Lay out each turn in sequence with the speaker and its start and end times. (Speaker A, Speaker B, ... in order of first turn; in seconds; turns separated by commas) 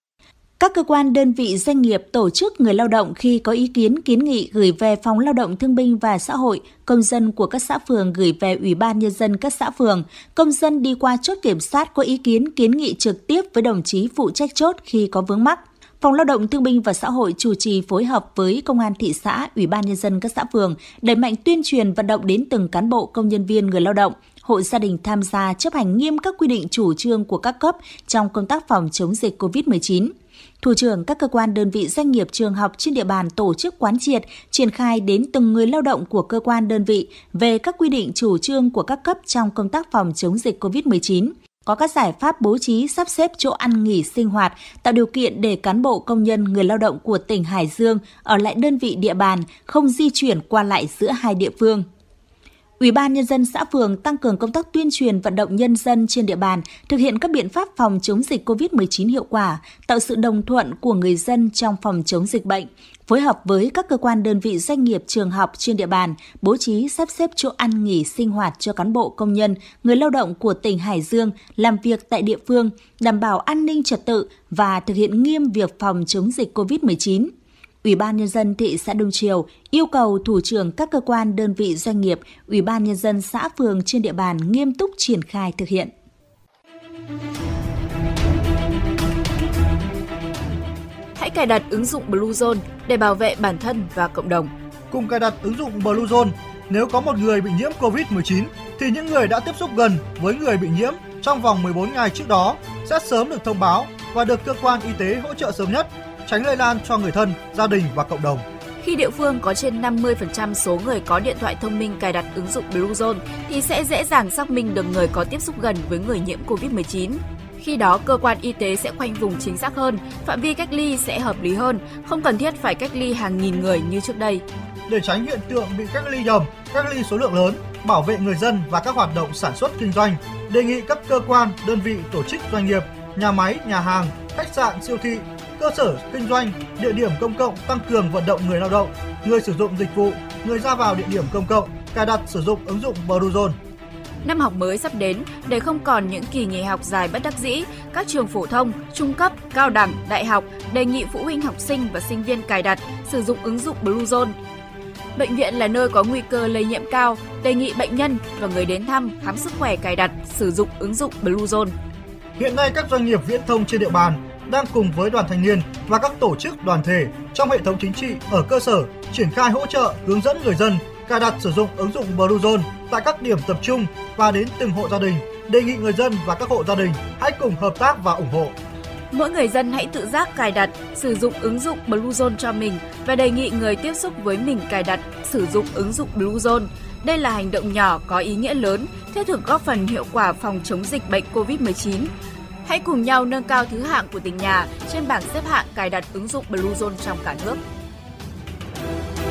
Speaker A: 0.6-51.9, Speaker A: 52.8-77.3, Speaker A: 77.8-85.9, Speaker B: 91.2-94.5, Speaker C: 94.9-108.5, Speaker B: 108.8-124.4, Speaker C: 124.9-143.6, Speaker B: 144.2-154.3, Speaker B: 155.2-161.8, Speaker C: 162.4-178.5, Speaker B: 179.1-192.1, Speaker B: 192.7-197.6